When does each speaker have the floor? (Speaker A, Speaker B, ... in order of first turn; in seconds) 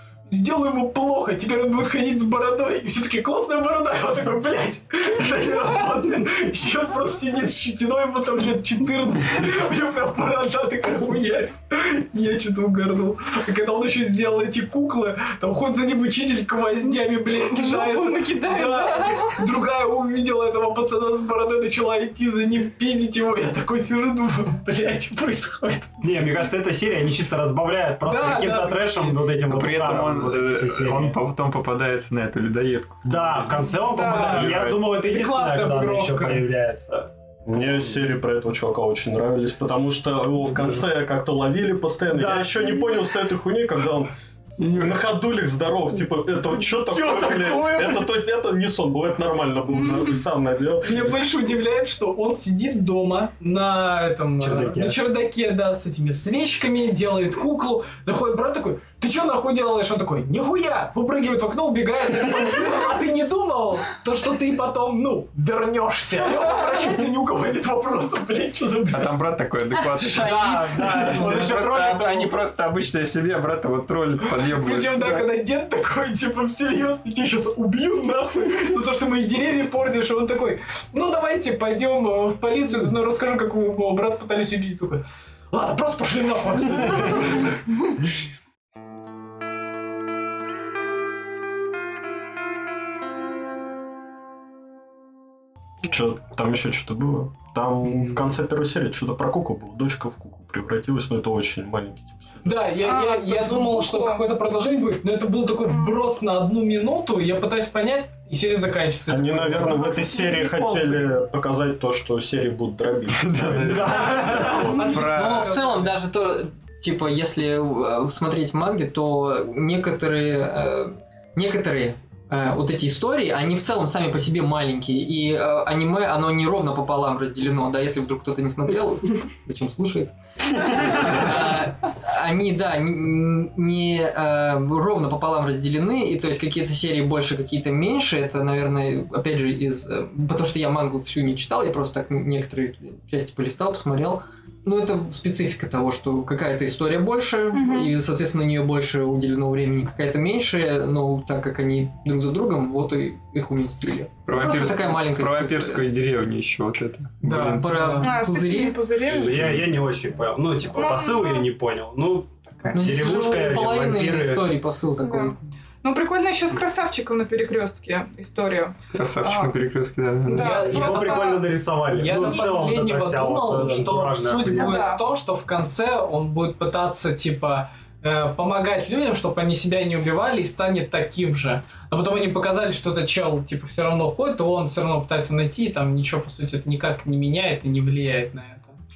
Speaker A: 0.3-26.0, 28.0-29.3, 34.0-36.5, 46.9-48.0, 50.8-69.2, 71.1-71.4, 74.4-87.6, 102.4-110.7, 113.9-115.9, 157.2-158.1, 170.3-188.8
Speaker B: 17.5-19.4, 33.8-34.4, 49.7-50.2, 102.8-104.2, 109.8-110.5, 147.5-147.9, 158.0-159.4, 160.7-161.5, 165.0-169.5, 170.2-171.5, 172.1-172.6, 174.5-175.0
Speaker C: 26.0-31.2, 33.0-38.0, 42.1-42.8, 54.4-55.0, 70.1-72.4, 113.7-114.8, 159.1-164.5, 170.4-174.8
Speaker D: 29.4-34.8, 44.6-45.0, 68.9-75.2, 113.2-115.5, 154.2-158.0, 159.2-159.7, 168.9-170.9
Speaker E: 37.5-44.1, 44.7-51.2, 95.8-102.6, 109.1-114.9
Speaker F: 70.1-71.5, 114.7-155.8, 157.6-158.8, 162.7-165.4